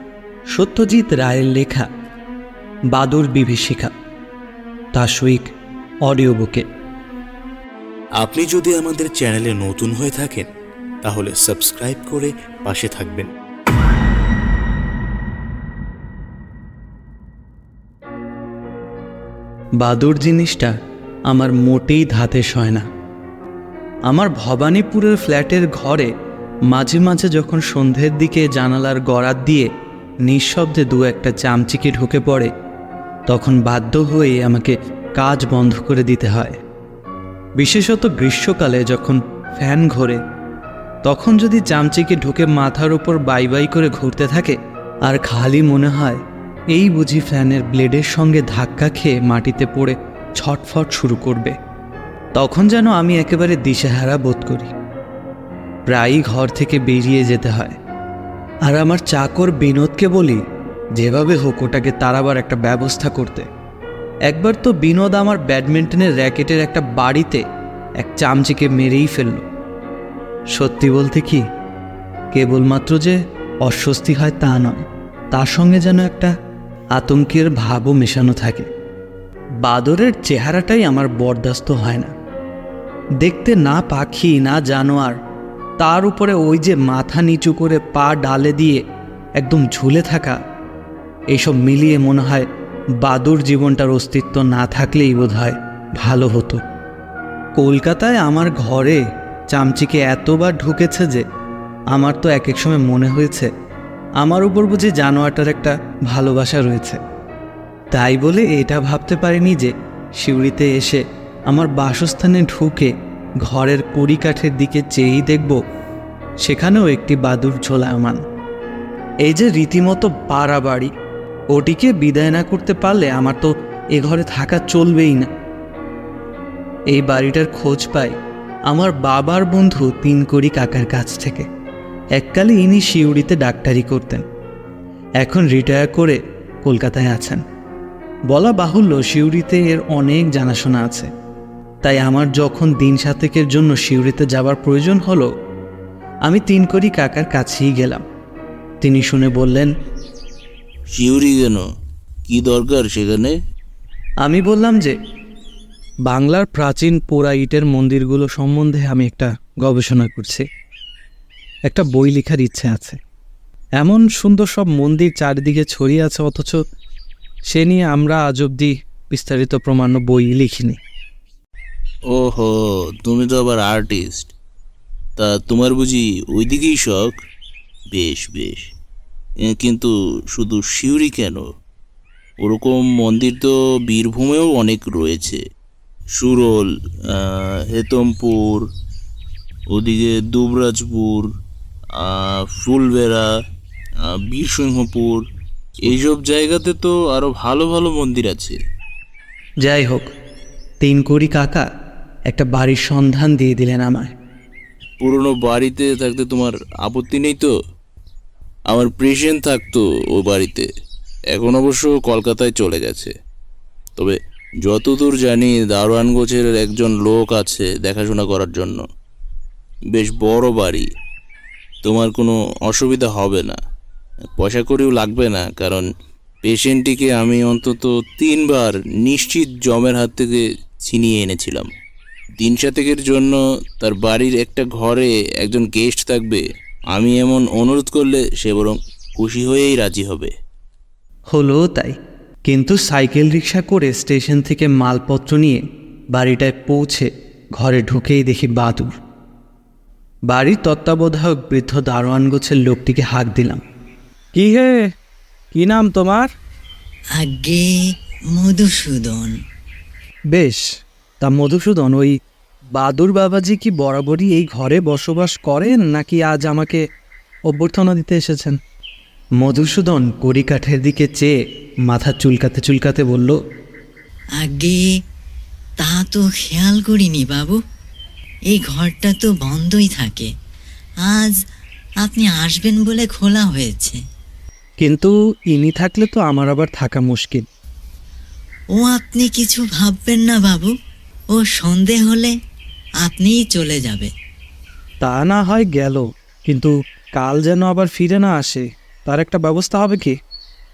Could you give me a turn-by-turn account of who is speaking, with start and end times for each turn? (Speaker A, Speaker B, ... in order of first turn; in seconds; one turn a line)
Speaker A: 0.5-1.9
Speaker A: 2.9-3.9
Speaker A: 4.9-5.5
Speaker A: 6.0-6.7
Speaker B: 8.2-10.5
Speaker B: 11.0-13.3
Speaker A: 19.8-20.8
Speaker A: 21.3-22.9
Speaker A: 24.1-26.1
Speaker A: 26.7-29.7
Speaker A: 30.3-32.5
Speaker A: 33.3-36.6
Speaker A: 37.6-40.2
Speaker A: 41.1-46.2
Speaker A: 46.7-51.6
Speaker A: 52.4-54.7
Speaker A: 55.9-57.8
Speaker A: 58.7-60.4
Speaker A: 61.0-63.5
Speaker A: 64.3-67.4
Speaker A: 68.0-69.5
Speaker A: 70.5-71.5
Speaker A: 72.3-76.3
Speaker A: 77.0-78.7
Speaker A: 79.6-82.1
Speaker A: 83.2-85.2
Speaker A: 85.8-88.8
Speaker A: 89.4-90.4
Speaker A: 91.3-92.5
Speaker A: 93.0-96.6
Speaker A: 97.6-101.3
Speaker A: 101.9-103.5
Speaker A: 104.2-107.0
Speaker A: 107.9-115.6
Speaker A: 116.4-118.2
Speaker A: 119.2-120.9
Speaker A: 121.5-125.3
Speaker A: 126.9-128.2
Speaker A: 128.7-131.5
Speaker A: 132.2-134.2
Speaker A: 135.2-137.4
Speaker A: 138.3-141.1
Speaker A: 141.8-145.3
Speaker A: 146.3-148.1
Speaker A: 148.8-149.7
Speaker C: 150.9-151.6
Speaker C: 152.3-153.3
Speaker A: 154.2-155.0
Speaker A: 156.1-160.5
Speaker A: 161.7-163.0
Speaker A: 163.8-166.6
Speaker A: 167.5-170.8
Speaker C: 172.1-174.3
Speaker C: 175.2-177.2
Speaker C: 177.9-178.7
Speaker C: 179.4-181.5
Speaker C: 182.4-185.4
Speaker C: 186.2-188.7
Speaker C: 189.7-191.3
Speaker C: 191.9-193.3
Speaker C: 194.1-195.2
Speaker C: 195.8-198.6
Speaker A: 199.6-200.1
Speaker A: 200.8-201.7
Speaker A: 202.3-204.1
Speaker C: 205.0-207.5
Speaker C: 208.7-210.7
Speaker C: 211.3-213.1
Speaker C: 214.0-218.9
Speaker C: 219.9-220.9
Speaker C: 221.8-223.6
Speaker C: 224.4-225.9
Speaker C: 226.4-231.7
Speaker C: 232.4-240.3
Speaker A: 241.3-248.9
Speaker A: 250.3-253.6
Speaker A: 254.3-254.9
Speaker A: 255.5-256.3
Speaker D: 257.2-259.4
Speaker A: 260.3-260.6
Speaker A: 261.2-262.2
Speaker A: 262.7-266.8
Speaker A: 267.5-268.6
Speaker A: 269.4-271.4
Speaker A: 271.9-273.4
Speaker D: 274.4-275.0
Speaker D: 275.8-277.6
Speaker D: 278.5-280.3
Speaker D: 281.0-281.4
Speaker D: 282.0-284.0
Speaker A: 284.8-287.4
Speaker D: 288.8-290.7
Speaker D: 291.3-292.3
Speaker D: 293.0-294.1
Speaker A: 295.0-300.2